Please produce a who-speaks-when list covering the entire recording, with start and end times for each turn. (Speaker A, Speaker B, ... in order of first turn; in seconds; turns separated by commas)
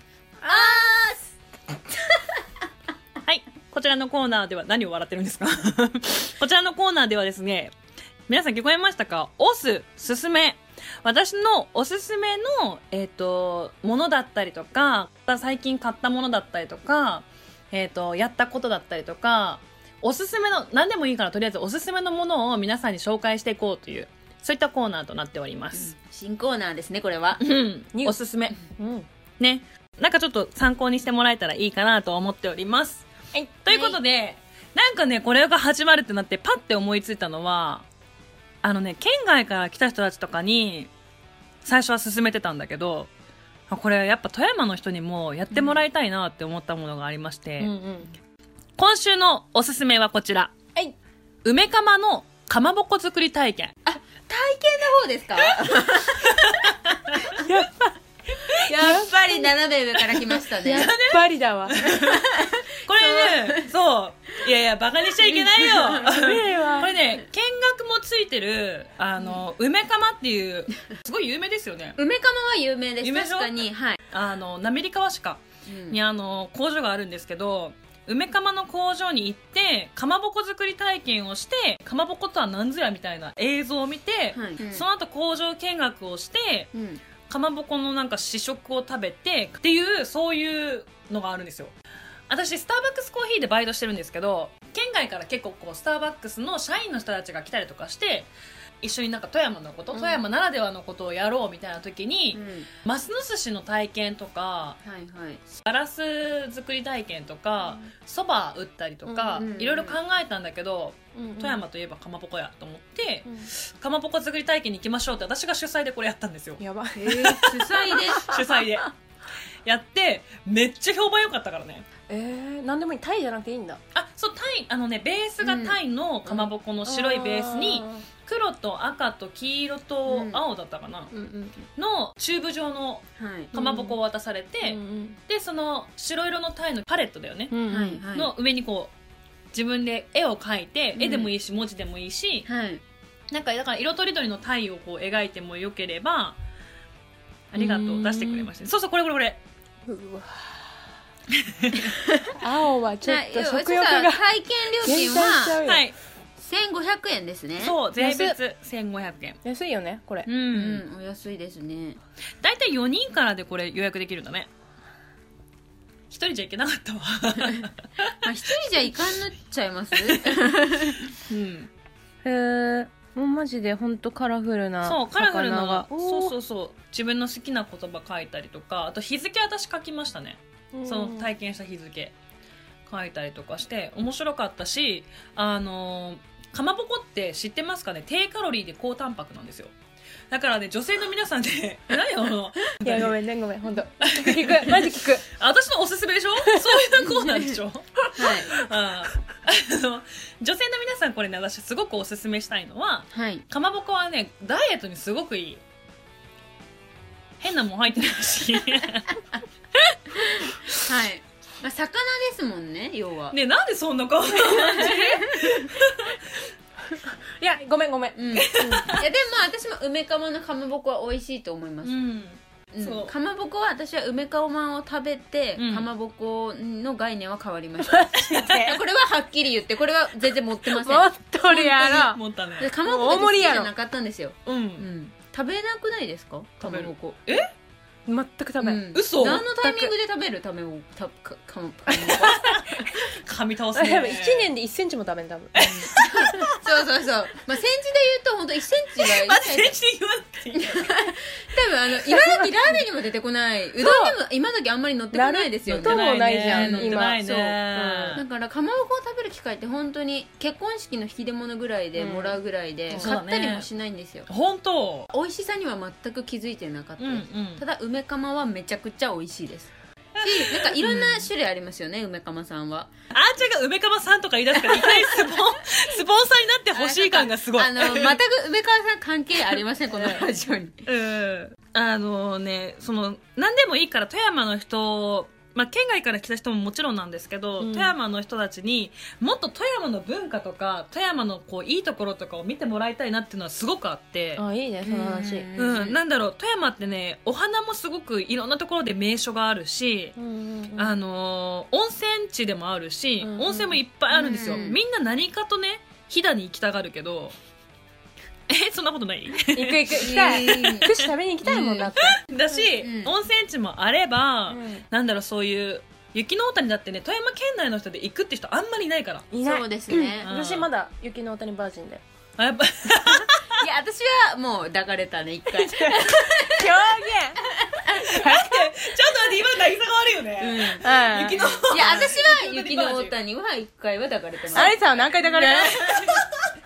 Speaker A: 0.4-1.0, Speaker B: 0.5-1.2, Speaker C: 3.2-7.7, Speaker C: 8.3-25.9, Speaker B: 25.7-27.4, Speaker C: 27.4-28.6, Speaker A: 27.9-29.1, Speaker C: 29.4-33.1, Speaker C: 33.6-37.9, Speaker B: 33.7-34.0, Speaker C: 38.6-40.9, Speaker C: 41.6-43.1, Speaker C: 43.7-47.7, Speaker B: 45.5-45.8, Speaker A: 47.6-48.1, Speaker C: 48.8-50.6, Speaker C: 51.4-53.7, Speaker B: 53.9-56.7, Speaker C: 56.2-57.4, Speaker A: 57.4-57.9, Speaker B: 58.6-60.9, Speaker A: 58.7-59.1, Speaker A: 60.6-61.8, Speaker C: 60.7-72.0, Speaker B: 61.9-63.7, Speaker B: 65.3-66.0, Speaker A: 65.9-67.0, Speaker B: 72.0-74.0, Speaker C: 73.0-86.7, Speaker B: 75.7-76.0, Speaker B: 84.3-84.8, Speaker B: 86.7-87.0, Speaker C: 87.3-91.7, Speaker C: 92.3-98.3, Speaker C: 98.8-104.8, Speaker A: 99.9-100.2, Speaker B: 102.3-102.7, Speaker B: 104.8-105.4, Speaker C: 105.5-118.9, Speaker A: 109.1-109.5, Speaker B: 109.4-110.0, Speaker A: 111.2-111.6, Speaker A: 116.6-118.3, Speaker B: 117.0-118.8, Speaker C: 119.7-121.8, Speaker A: 122.1-123.8, Speaker C: 123.9-131.1, Speaker B: 125.4-126.5, Speaker A: 126.8-128.1, Speaker B: 130.1-130.4, Speaker A: 131.1-131.6, Speaker C: 131.7-137.6, Speaker B: 133.2-133.5, Speaker A: 133.5-134.0, Speaker A: 134.6-135.2, Speaker A: 137.5-138.0, Speaker B: 137.7-138.3, Speaker C: 138.1-138.9, Speaker C: 139.5-142.5, Speaker B: 141.0-141.3, Speaker B: 142.5-142.8, Speaker C: 143.3-146.4, Speaker C: 147.5-149.4, Speaker A: 147.6-148.5, Speaker A: 149.9-150.6, Speaker C: 151.4-151.8, Speaker B: 151.7-152.2, Speaker A: 152.4-154.2, Speaker B: 153.0-155.6, Speaker A: 154.8-155.9, Speaker C: 155.7-155.9, Speaker B: 156.4-157.8, Speaker C: 157.6-159.4, Speaker A: 158.0-158.4, Speaker A: 159.4-160.3, Speaker C: 160.2-160.8, Speaker B: 160.5-162.0, Speaker C: 162.4-164.5, Speaker C: 166.1-168.1, Speaker B: 168.2-171.1, Speaker C: 170.0-170.3, Speaker C: 171.2-171.7, Speaker A: 172.2-176.3, Speaker C: 174.8-182.1, Speaker A: 180.8-181.3, Speaker C: 182.9-189.7, Speaker C: 190.3-193.2, Speaker A: 192.8-195.2, Speaker C: 194.0-205.6, Speaker A: 196.4-197.0, Speaker B: 197.1-197.6, Speaker B: 198.2-198.5, Speaker B: 203.1-203.4, Speaker C: 207.4-209.2, Speaker B: 210.4-213.4, Speaker C: 210.4-210.8, Speaker C: 213.3-216.4, Speaker B: 214.3-215.7, Speaker A: 214.6-215.2, Speaker A: 216.9-219.0, Speaker B: 218.2-222.0, Speaker C: 218.4-219.1, Speaker C: 221.8-223.1, Speaker B: 222.7-237.2, Speaker C: 225.6-225.9, Speaker A: 227.9-228.8, Speaker C: 228.2-228.5, Speaker A: 230.7-232.2, Speaker C: 232.0-232.7, Speaker A: 232.8-233.7, Speaker C: 234.4-234.9, Speaker C: 236.6-237.5, Speaker A: 238.1-238.8, Speaker B: 238.6-242.4, Speaker C: 238.9-239.4, Speaker A: 239.3-239.9, Speaker A: 241.9-243.1, Speaker C: 242.3-244.5, Speaker A: 243.8-245.6, Speaker C: 245.6-246.5, Speaker B: 245.6-249.8, Speaker C: 249.0-250.9, Speaker B: 250.6-257.0, Speaker A: 252.1-252.5, Speaker A: 253.8-254.2, Speaker A: 255.1-258.2, Speaker C: 255.7-258.2, Speaker B: 258.1-264.3, Speaker A: 262.0-262.4, Speaker C: 262.9-263.7, Speaker C: 264.3-265.1, Speaker B: 265.1-272.9, Speaker C: 267.0-267.6, Speaker C: 270.2-271.3, Speaker C: 273.1-278.2, Speaker B: 274.6-275.4, Speaker B: 276.7-280.9, Speaker C: 280.9-294.4, Speaker A: 287.6-287.9, Speaker A: 294.4-295.5, Speaker B: 294.8-296.0, Speaker C: 295.6-300.1, Speaker A: 300.2-301.0, Speaker C: 300.7-307.4, Speaker A: 303.2-303.8, Speaker B: 304.1-304.8, Speaker C: 308.5-311.1, Speaker A: 309.5-312.6, Speaker B: 310.0-310.9, Speaker B: 311.4-312.0, Speaker C: 312.0-319.3, Speaker B: 312.8-313.1, Speaker A: 314.5-314.8, Speaker A: 319.3-322.0, Speaker B: 319.4-320.3, Speaker C: 320.2-320.7, Speaker C: 322.4-323.6, Speaker B: 323.5-328.2, Speaker A: 325.8-327.4, Speaker C: 328.0-333.1, Speaker A: 328.2-328.6, Speaker B: 330.4-334.8, Speaker A: 330.8-331.5, Speaker A: 334.5-336.0, Speaker C: 335.4-336.5, Speaker B: 335.6-336.1